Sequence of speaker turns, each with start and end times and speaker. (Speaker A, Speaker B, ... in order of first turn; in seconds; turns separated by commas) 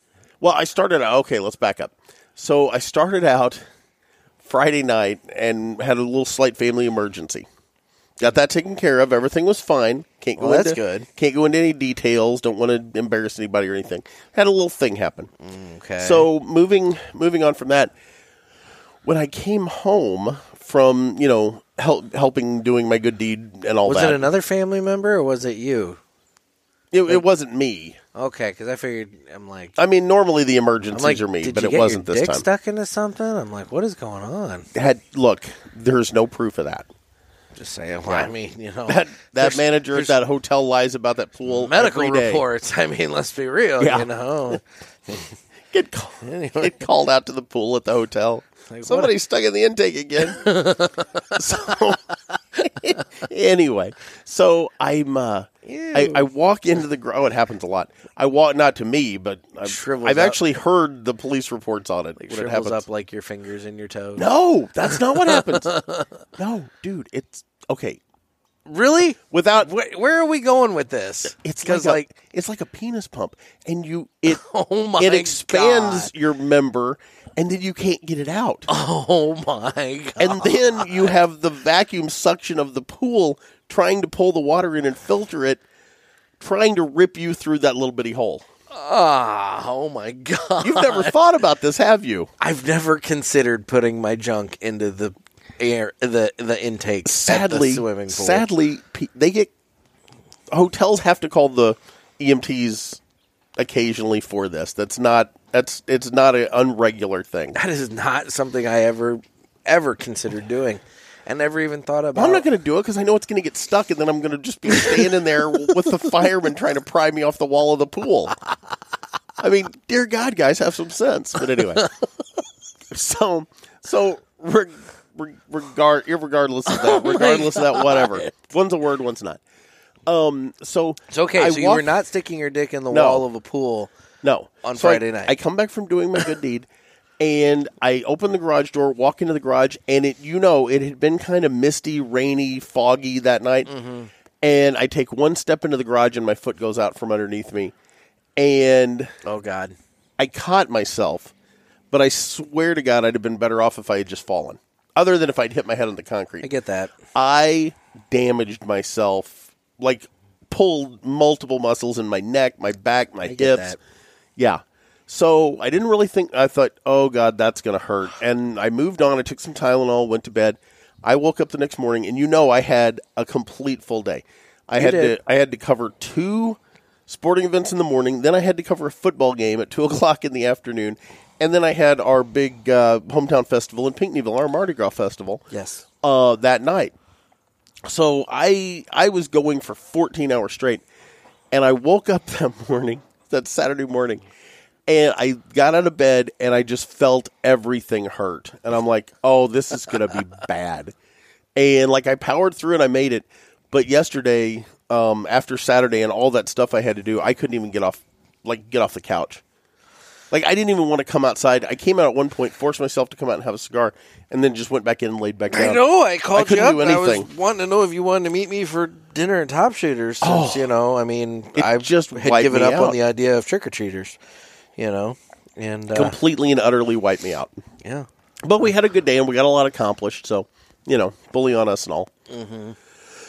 Speaker A: 0.4-3.6, Speaker A: 4.4-7.5, Speaker A: 8.2-15.3, Speaker B: 10.4-11.1, Speaker B: 15.4-16.3, Speaker A: 16.0-17.9, Speaker A: 19.0-24.3, Speaker B: 23.8-26.0, Speaker A: 26.9-28.0, Speaker B: 28.1-29.8, Speaker A: 29.8-32.4, Speaker B: 30.9-34.7, Speaker A: 34.7-36.9, Speaker B: 37.5-40.2, Speaker A: 38.0-38.3, Speaker A: 38.9-42.4, Speaker B: 41.5-45.3, Speaker A: 43.8-44.6, Speaker A: 45.7-50.6, Speaker B: 46.2-46.8, Speaker B: 48.7-49.1, Speaker B: 50.2-51.2, Speaker A: 51.3-52.0, Speaker A: 52.5-62.8, Speaker B: 55.6-56.3, Speaker B: 59.6-60.4, Speaker B: 62.2-64.2, Speaker A: 64.2-65.7, Speaker B: 64.8-66.1, Speaker A: 66.4-68.0, Speaker B: 68.7-72.1, Speaker A: 69.3-69.7, Speaker A: 71.3-74.4, Speaker B: 74.3-76.1, Speaker A: 75.0-78.7, Speaker B: 78.7-81.2, Speaker A: 80.2-85.6, Speaker A: 86.4-88.4, Speaker B: 88.7-91.2, Speaker A: 90.6-92.3, Speaker B: 92.4-98.5, Speaker A: 97.0-99.5, Speaker A: 100.5-103.0, Speaker A: 103.6-107.6, Speaker B: 107.5-112.4, Speaker A: 112.1-118.3, Speaker A: 119.4-121.9, Speaker A: 122.9-129.4, Speaker B: 126.7-128.3, Speaker A: 130.1-131.9, Speaker B: 131.1-133.9, Speaker A: 132.9-133.2, Speaker A: 134.2-136.7, Speaker B: 134.6-135.3, Speaker A: 137.2-143.7, Speaker B: 143.7-144.1, Speaker A: 144.4-147.7, Speaker A: 148.4-149.1, Speaker B: 149.2-149.8, Speaker A: 150.2-151.3, Speaker A: 151.9-156.5, Speaker B: 156.4-156.9, Speaker A: 157.1-163.8, Speaker B: 163.2-163.8, Speaker A: 164.4-185.4, Speaker B: 174.8-175.2, Speaker B: 185.5-185.8, Speaker A: 186.0-186.9, Speaker A: 187.8-190.8, Speaker A: 191.5-194.2, Speaker A: 194.9-200.9, Speaker A: 201.5-209.4, Speaker A: 210.3-215.8, Speaker B: 215.5-224.2, Speaker A: 216.3-217.3, Speaker A: 220.2-220.7, Speaker A: 221.5-223.0, Speaker B: 224.8-226.2, Speaker A: 225.9-227.6, Speaker B: 227.8-228.1, Speaker A: 228.4-232.1, Speaker B: 232.3-232.8